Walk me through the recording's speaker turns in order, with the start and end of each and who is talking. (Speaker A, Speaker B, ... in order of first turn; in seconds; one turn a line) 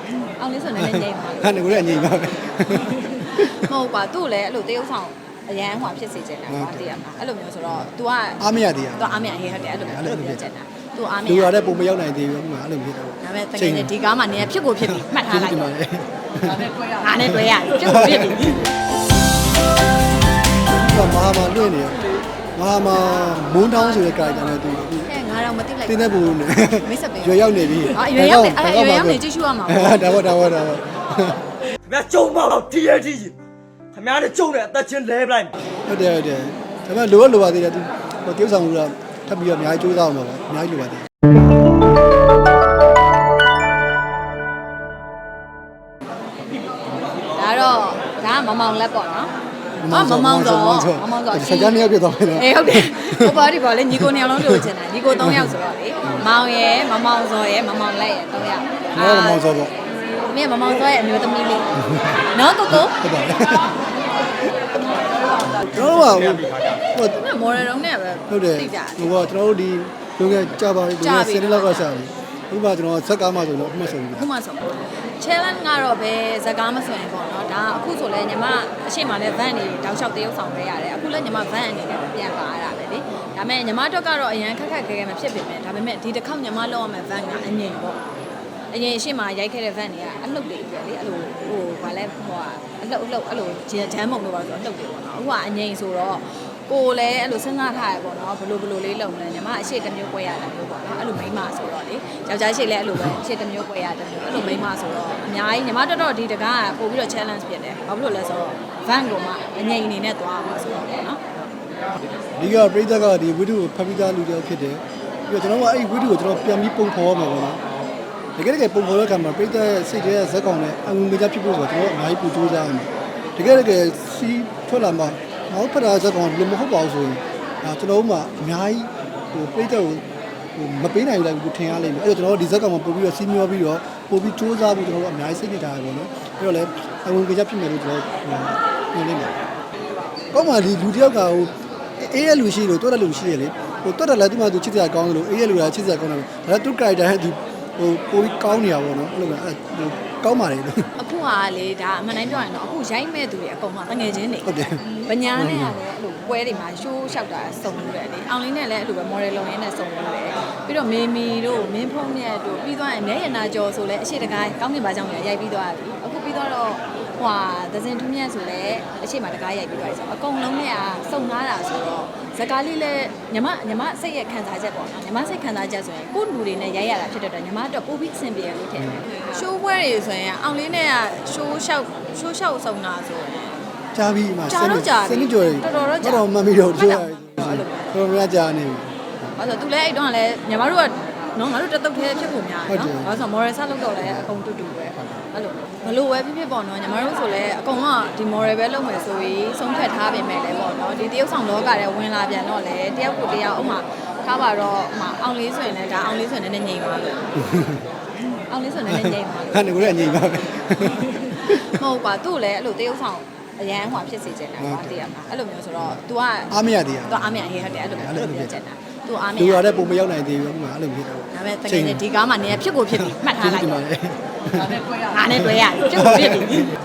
Speaker A: 0.2-11.5
Speaker B: 0.8-3.7
Speaker B: 6.5-6.9
Speaker B: 8.4-10.4
Speaker B: 11.2-14.0
Speaker A: 13.2-15.7
Speaker B: 14.7-18.6
Speaker A: 16.8-18.6
Speaker B: 20.7-22.0
Speaker B: 22.6-25.2
Speaker A: 25.1-26.2
Speaker B: 25.8-31.4
Speaker A: 26.8-27.3
Speaker A: 27.9-30.3
Speaker C: 31.9-33.4
Speaker C: 33.9-35.5
Speaker B: 35.9-41.1
Speaker A: 47.3-49.3
Speaker B: 49.8-54.7
Speaker A: 49.9-51.8
Speaker A: 52.3-59.5
Speaker B: 55.2-56.3
Speaker B: 58.9-59.7
Speaker A: 60.3-61.7
Speaker B: 61.8-63.8
Speaker A: 62.2-63.0
Speaker B: 65.5-67.2
Speaker A: 67.0-69.2
Speaker B: 68.3-74.3
Speaker A: 71.0-71.9
Speaker A: 74.2-88.0
Speaker A: 88.7-111.2
Speaker B: 112.4-117.6
Speaker B: 118.4-130.1
Speaker B: 130.6-139.4
Speaker B: 140.3-150.9
Speaker A: 151.0-183.6
Speaker B: 154.4-155.8
Speaker B: 183.9-188.9
Speaker A: 184.5-188.0
Speaker A: 189.4-207.2
Speaker B: 192.7-193.1
Speaker B: 207.4-207.8
Speaker A: 208.3-219.8
Speaker B: 208.9-211.8
Speaker B: 214.6-215.0
Speaker B: 216.5-218.5
Speaker B: 219.3-222.1
Speaker A: 221.3-223.8
Speaker B: 222.8-226.7
Speaker A: 224.6-226.7